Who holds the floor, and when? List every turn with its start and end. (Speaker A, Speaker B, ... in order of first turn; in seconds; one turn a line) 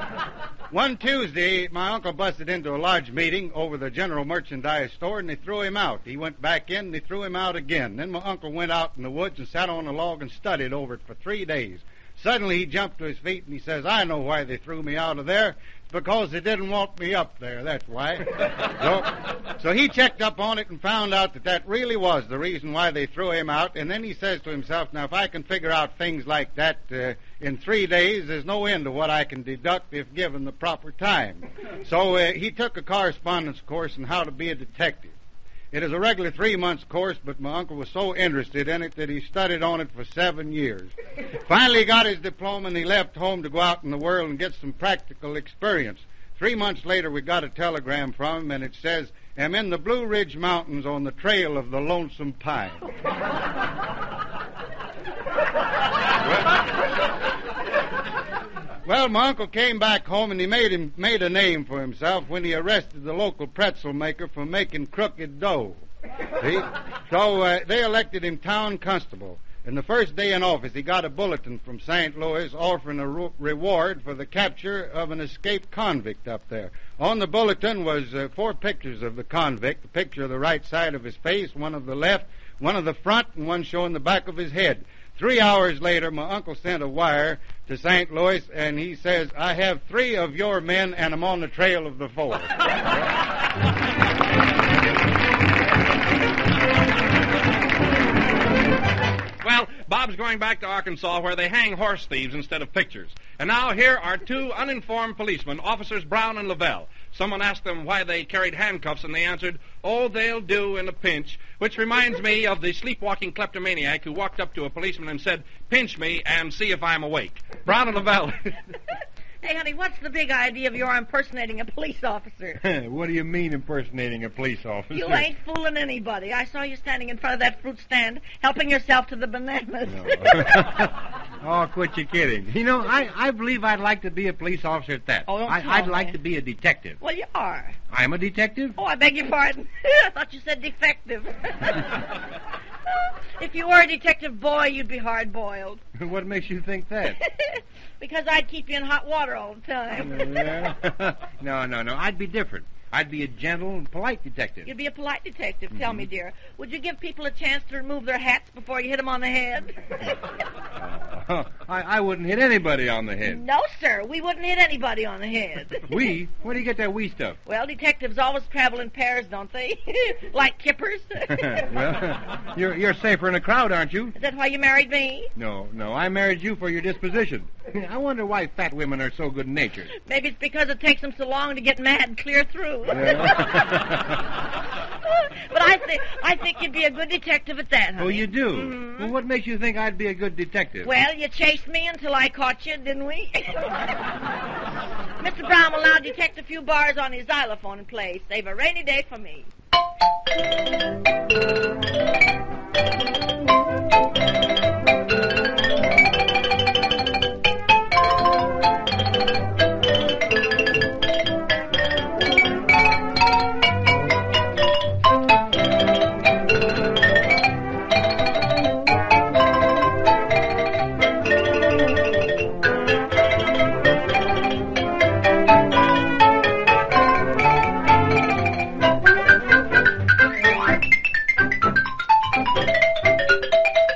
Speaker A: 0.7-35.1
Speaker A: 35.7-40.9
Speaker A: 41.5-52.8
Speaker A: 58.9-65.8
Speaker A: 66.4-92.6
Speaker B: 99.4-118.4
Speaker C: 119.4-122.6
Speaker D: 122.6-125.3
Speaker C: 124.9-130.6
Speaker D: 129.9-137.0
Speaker C: 135.3-136.2
Speaker C: 137.0-137.8
Speaker D: 137.9-138.8
Speaker C: 138.8-142.0
Speaker C: 143.4-145.8
Speaker D: 146.0-147.2
Speaker C: 147.1-150.5
Speaker D: 150.0-154.7
Speaker C: 154.7-159.8
Speaker D: 155.8-156.0
Speaker D: 160.8-163.4
Speaker C: 163.2-166.0
Speaker D: 165.9-167.4
Speaker C: 167.5-171.5
Speaker D: 171.3-174.1
Speaker C: 174.2-175.3
Speaker D: 175.4-179.9
Speaker C: 180.0-183.3
Speaker D: 182.9-184.2
Speaker C: 185.1-189.1
Speaker D: 188.0-190.9
Speaker C: 190.8-193.9
Speaker C: 195.2-199.5